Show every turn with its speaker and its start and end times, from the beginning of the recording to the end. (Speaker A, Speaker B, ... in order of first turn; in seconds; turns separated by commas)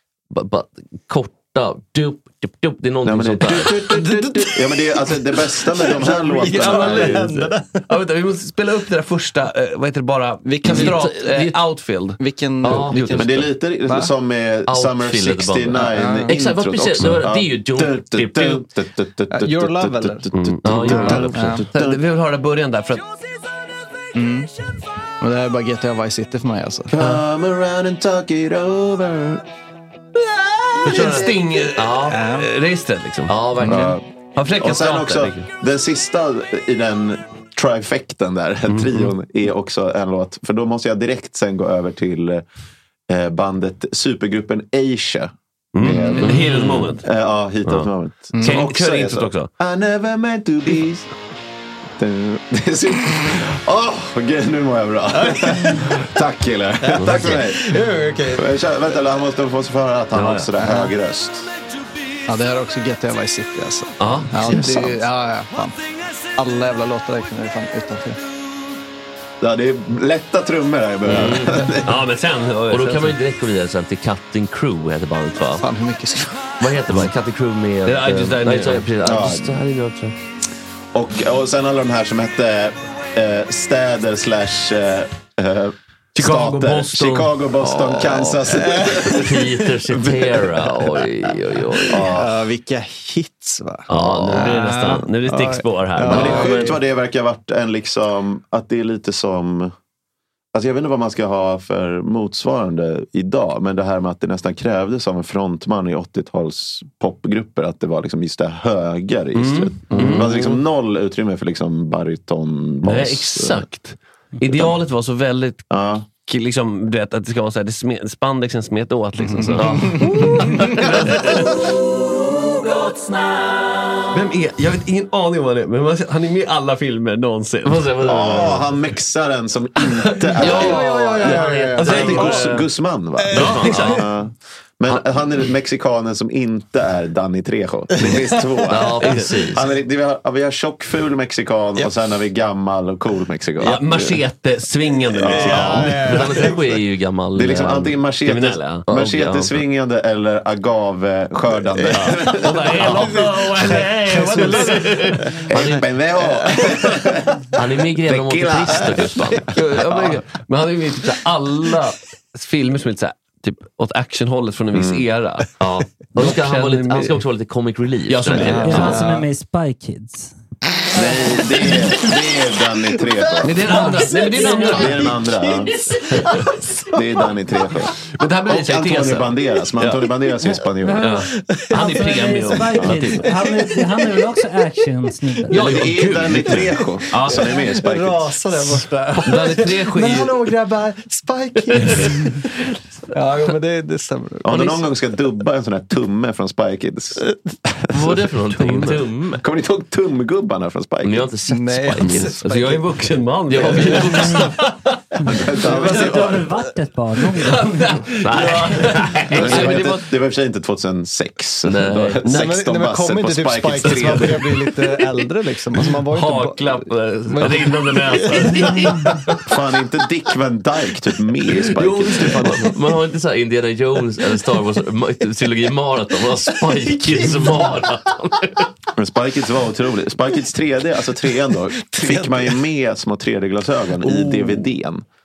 Speaker A: 0.3-3.9, Speaker B: 3.0-7.3, Speaker C: 3.6-7.9, Speaker D: 6.4-13.5, Speaker C: 10.4-14.1, Speaker A: 10.6-11.1, Speaker A: 12.6-13.4, Speaker B: 13.1-22.0, Speaker A: 14.7-18.7, Speaker C: 15.7-16.3, Speaker C: 19.3-21.7, Speaker D: 20.3-23.0, Speaker A: 20.6-21.7, Speaker C: 24.1-24.5, Speaker C: 25.2-27.0, Speaker B: 26.9-29.4, Speaker D: 30.8-33.7, Speaker A: 30.9-32.2, Speaker C: 30.9-31.3, Speaker C: 32.0-32.5, Speaker A: 33.3-34.0, Speaker B: 33.6-34.0, Speaker D: 34.4-35.4, Speaker B: 34.6-42.4, Speaker D: 38.7-39.1, Speaker B: 43.1-51.1, Speaker D: 45.7-47.0, Speaker C: 46.2-46.5, Speaker A: 46.2-46.7, Speaker D: 47.6-47.9, Speaker C: 48.3-48.7, Speaker A: 48.4-49.5, Speaker B: 52.0-57.8, Speaker C: 55.1-55.9, Speaker C: 56.8-58.5, Speaker B: 58.3-61.5, Speaker A: 60.2-60.5, Speaker C: 60.6-60.9, Speaker C: 62.3-65.8, Speaker A: 64.0-64.9, Speaker B: 64.5-64.8, Speaker C: 66.4-68.2, Speaker B: 69.4-71.9, Speaker A: 71.1-71.9, Speaker D: 71.8-73.2, Speaker A: 72.7-75.7, Speaker C: 75.6-76.5, Speaker A: 76.6-80.2, Speaker D: 77.9-78.9, Speaker B: 79.0-79.6, Speaker B: 80.9-90.7, Speaker D: 86.2-87.3, Speaker A: 87.0-92.1, Speaker C: 88.5-89.1, Speaker B: 91.9-92.4, Speaker C: 91.9-96.8, Speaker A: 93.9-94.6, Speaker D: 93.9-96.3, Speaker A: 96.0-96.7, Speaker B: 96.0-99.7, Speaker B: 100.5-113.6, Speaker D: 109.3-110.6, Speaker A: 109.9-110.3, Speaker D: 112.9-115.6, Speaker B: 115.7-116.1, Speaker D: 116.2-121.4, Speaker C: 119.2-121.6, Speaker A: 119.5-120.1, Speaker D: 124.1-127.9, Speaker A: 127.6-128.7, Speaker B: 128.0-144.2, Speaker C: 130.2-132.6, Speaker A: 130.4-132.7, Speaker D: 131.8-132.6, Speaker C: 133.2-134.1, Speaker A: 133.3-134.1, Speaker C: 138.0-138.4, Speaker A: 138.7-139.7, Speaker D: 143.6-146.2, Speaker C: 145.1-146.8, Speaker B: 145.2-145.9, Speaker A: 145.5-148.1, Speaker B: 147.3-153.2, Speaker D: 148.2-148.9, Speaker A: 148.9-149.6, Speaker C: 151.7-155.5, Speaker D: 151.9-155.3, Speaker B: 155.5-157.4, Speaker A: 155.5-155.8, Speaker C: 156.2-157.1, Speaker A: 157.5-159.5, Speaker B: 157.9-160.2, Speaker D: 159.5-165.5, Speaker B: 164.7-165.1, Speaker A: 165.6-168.9, Speaker D: 166.2-167.2, Speaker D: 168.1-169.0, Speaker C: 168.3-169.3, Speaker E: 168.6-170.3, Speaker C: 170.9-172.2, Speaker B: 170.9-173.8, Speaker C: 172.9-175.7, Speaker D: 173.4-175.0, Speaker E: 173.7-175.1, Speaker B: 174.5-175.7, Speaker C: 176.3-176.9, Speaker B: 176.9-177.9, Speaker D: 178.1-180.1, Speaker B: 178.5-181.1, Speaker E: 180.8-185.6, Speaker D: 181.0-183.2, Speaker C: 181.2-182.1, Speaker B: 182.8-183.1, Speaker C: 183.2-184.3, Speaker B: 185.5-188.4, Speaker C: 185.5-192.6, Speaker D: 185.6-186.6, Speaker A: 185.9-186.5, Speaker D: 187.1-187.5, Speaker D: 189.2-190.5, Speaker C: 193.1-194.9, Speaker B: 194.4-197.2, Speaker A: 197.9-199.4, Speaker D: 198.5-199.1, Speaker B: 199.4-201.3, Speaker A: 201.0-202.8, Speaker C: 201.5-204.6, Speaker D: 202.0-205.0, Speaker A: 203.5-204.4, Speaker B: 205.3-206.5, Speaker C: 205.6-206.4, Speaker E: 205.7-208.0, Speaker D: 207.4-210.1, Speaker A: 208.2-209.8, Speaker B: 209.3-214.7, Speaker A: 211.6-212.2, Speaker D: 212.2-212.6, Speaker C: 212.3-219.3, Speaker D: 215.8-219.0, Speaker B: 219.5-222.7, Speaker D: 221.7-222.7, Speaker A: 222.5-228.7, Speaker C: 226.4-227.9, Speaker B: 229.0-235.0, Speaker C: 231.5-232.6, Speaker C: 234.0-234.6